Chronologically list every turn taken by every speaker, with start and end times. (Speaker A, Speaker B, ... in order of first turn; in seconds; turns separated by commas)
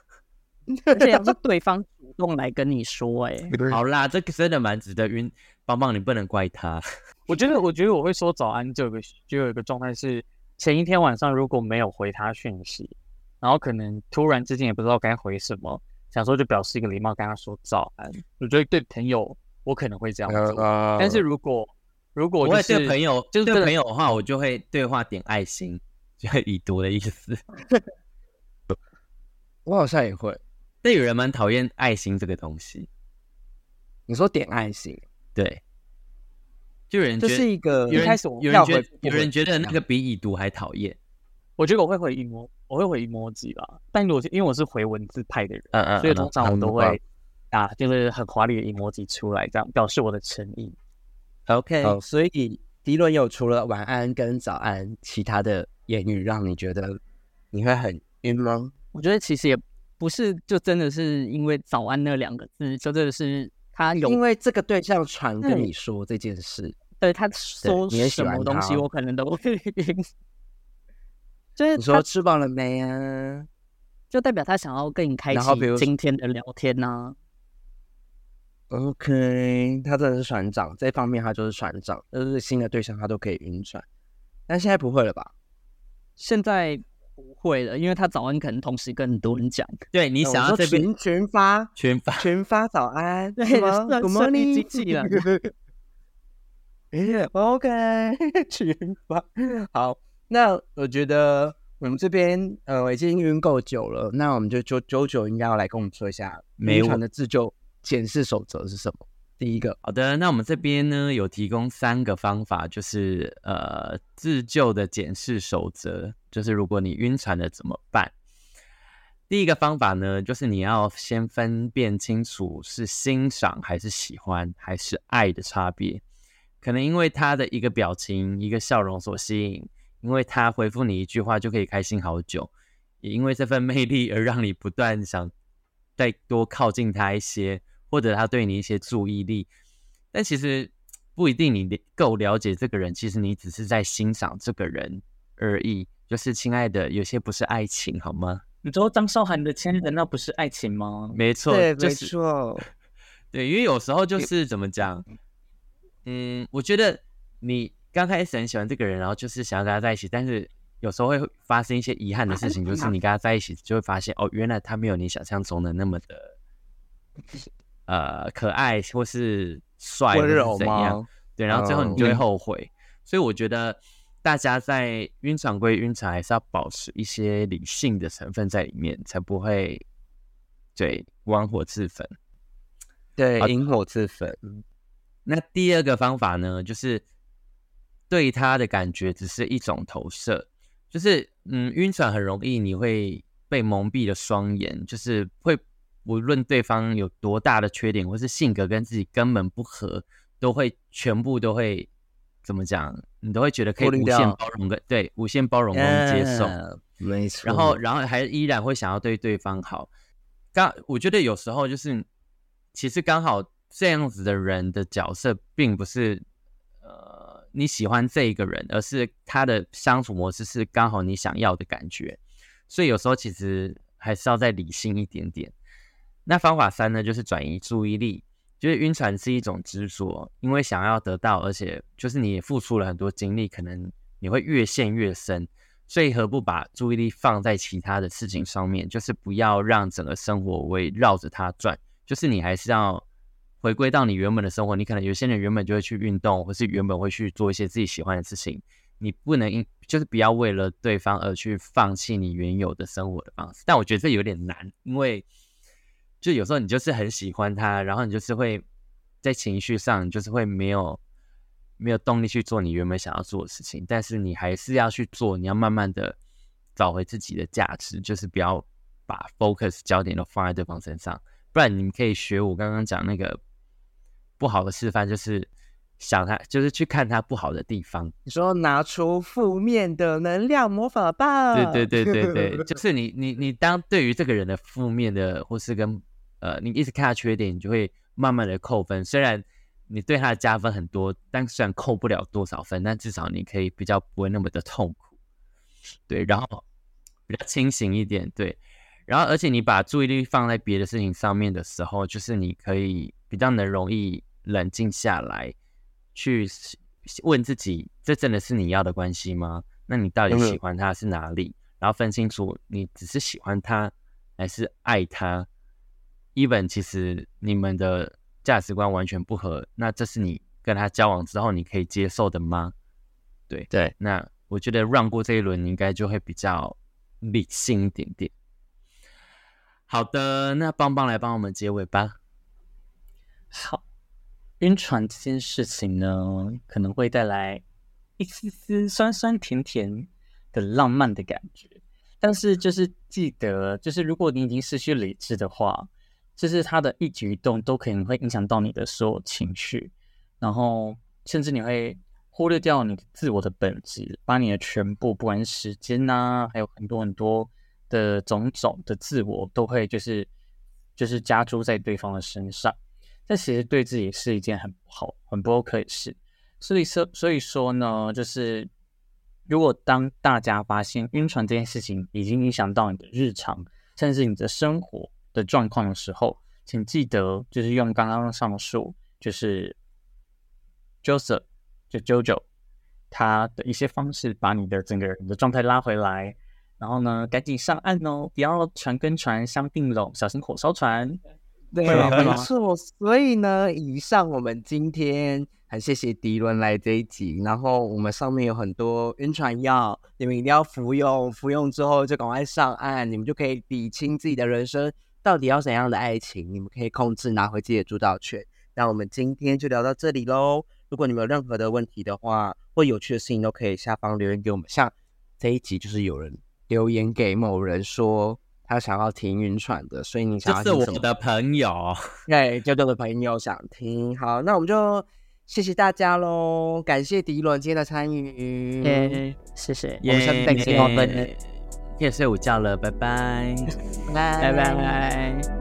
Speaker A: 0.7-1.3, Speaker B: 0.9-3.5, Speaker C: 3.7-6.8, Speaker D: 7.3-23.7, Speaker A: 20.3-21.2, Speaker C: 22.4-27.4, Speaker A: 29.7-30.4, Speaker C: 30.8-32.9, Speaker A: 34.1-35.0, Speaker C: 35.4-35.6, Speaker C: 36.9-41.0, Speaker A: 37.2-39.8, Speaker D: 37.9-38.5, Speaker D: 41.6-50.8, Speaker C: 45.7-47.0, Speaker C: 51.5-52.0, Speaker A: 51.8-57.0, Speaker A: 57.5-58.7, Speaker B: 58.9-64.2, Speaker A: 64.0-66.8, Speaker B: 65.4-65.7, Speaker B: 67.0-70.1, Speaker A: 67.6-68.8, Speaker B: 71.6-72.0, Speaker A: 71.8-73.5, Speaker B: 74.1-77.2, Speaker A: 75.3-75.9, Speaker A: 78.7-83.8, Speaker A: 84.5-85.3, Speaker B: 86.2-89.8, Speaker C: 89.9-90.9, Speaker A: 90.2-95.5, Speaker C: 91.8-92.3, Speaker B: 93.4-95.3, Speaker A: 96.9-109.8, Speaker C: 106.6-107.0, Speaker C: 109.8-118.1, Speaker C: 119.3-126.0, Speaker C: 126.6-135.3, Speaker C: 136.0-139.5, Speaker C: 140.1-148.4, Speaker D: 148.6-151.2, Speaker C: 151.2-152.1, Speaker A: 151.5-152.7, Speaker C: 153.3-155.1, Speaker C: 156.1-166.3, Speaker A: 162.4-162.9, Speaker C: 167.9-179.8, Speaker A: 170.1-172.2, Speaker C: 180.8-182.1, Speaker A: 183.2-184.6, Speaker C: 185.3-187.0, Speaker C: 188.1-201.9, Speaker C: 202.4-206.6, Speaker A: 203.8-204.4, Speaker A: 205.7-207.8, Speaker C: 207.4-209.9, Speaker C: 210.5-212.1, Speaker C: 212.7-216.2, Speaker C: 216.8-225.5, Speaker C: 226.3-243.0, Speaker C: 243.6-255.3, Speaker C: 256.2-258.6, Speaker C: 259.2-261.0, Speaker C: 261.8-266.2, Speaker C: 266.8-273.4, Speaker C: 274.4-278.1, Speaker A: 278.3-282.6, Speaker C: 281.5-295.1, Speaker C: 296.1-296.6, Speaker C: 297.3-305.6, Speaker C: 306.1-315.5, Speaker A: 310.3-310.6, Speaker C: 316.4-322.7, Speaker C: 323.5-328.3, Speaker C: 329.9-332.2, Speaker D: 333.5-333.8, Speaker D: 334.6-337.6, Speaker D: 338.2-360.3, Speaker D: 361.0-362.8, Speaker D: 363.3-368.7, Speaker D: 369.5-379.8, Speaker D: 381.0-382.4, Speaker D: 383.1-391.2, Speaker A: 391.7-421.1, Speaker D: 391.9-392.5, Speaker C: 391.9-392.3, Speaker C: 420.4-422.0, Speaker A: 422.3-429.2, Speaker B: 428.8-431.3, Speaker C: 430.0-431.4, Speaker A: 430.2-431.0, Speaker C: 432.0-433.7, Speaker C: 434.3-434.7, Speaker B: 434.4-435.5